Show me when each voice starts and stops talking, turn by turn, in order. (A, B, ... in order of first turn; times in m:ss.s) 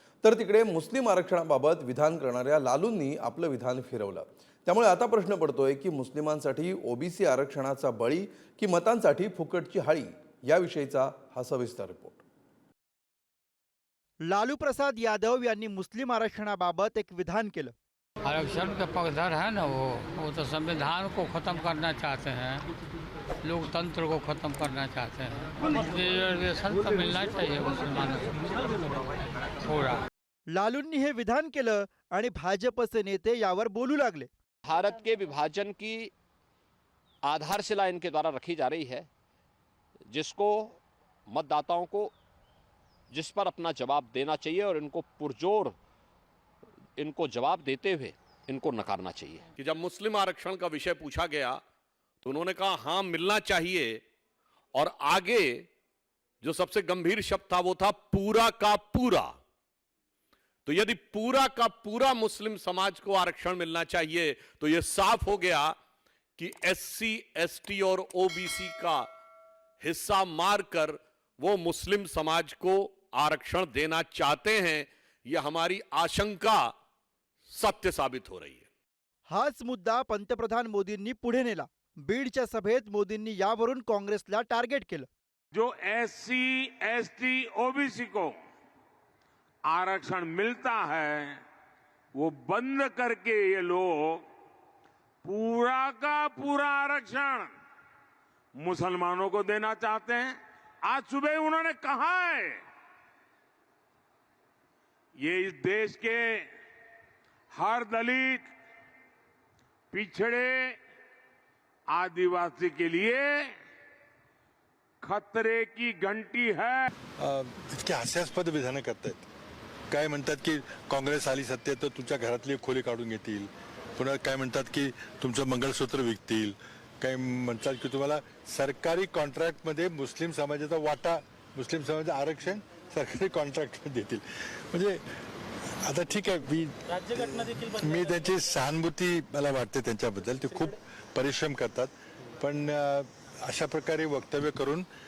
0:00.2-0:12.2 A
0:14.2-0:17.7 B
0:18.2-0:22.6 C
0:23.4-0:28.3 C
0:29.6-0:30.0 C
0:30.5-0:34.3 B
0:34.6-0:36.1 D
0:37.2-0:39.1 D
0:40.1-0:40.8 D
0:41.3-0:42.1 D
0:43.1-0:45.8 D
0:47.0-0:49.5 D
0:49.6-0:51.6 E
0:52.2-0:54.0 E
0:54.7-0:55.7 E
0:56.4-0:59.3 E
1:00.6-1:05.7 E
1:06.4-1:09.1 E
1:09.8-1:16.7 E
1:17.5-1:18.7 E
1:19.3-1:25.1 B
1:25.5-1:28.3 F
1:29.7-1:31.4 F
1:32.2-1:34.2 F
1:35.2-1:37.5 F
1:38.6-1:42.5 F
1:45.2-1:46.4 F
1:47.5-1:48.5 F
1:49.9-1:50.8 F
1:51.9-1:53.5 F
1:55.0-1:56.9 F
1:57.2-1:59.3 G
1:59.9-2:14.2 G
2:14.7-2:15.0 G
2:15.8-2:24.8 G
2:17.5-2:18.3 F